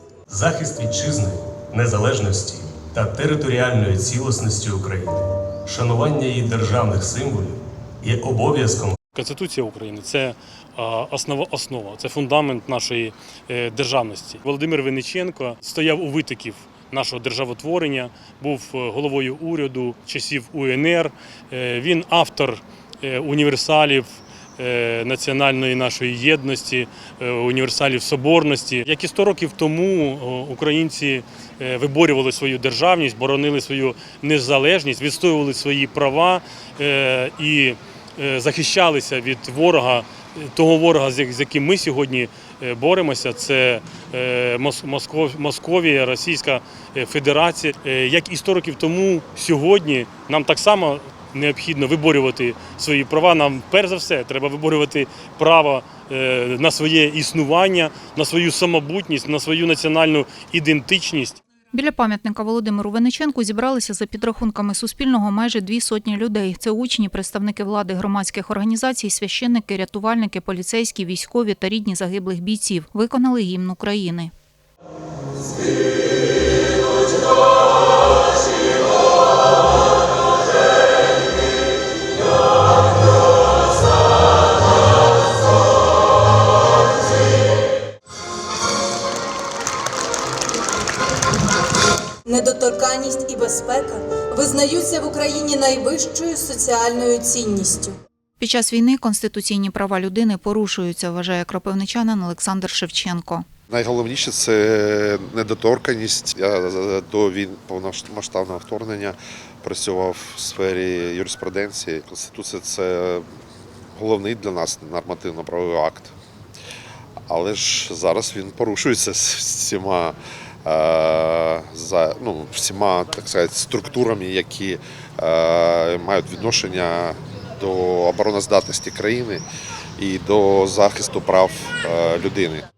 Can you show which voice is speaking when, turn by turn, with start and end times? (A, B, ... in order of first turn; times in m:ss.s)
0:00.3-0:09.0 A
0:09.1-1:01.4 B
1:01.7-1:14.3 C
1:32.2-1:38.0 D
1:38.4-1:43.4 C
1:43.7-1:53.3 E
1:53.9-1:56.1 E
1:57.3-2:09.4 E
2:10.0-2:12.7 E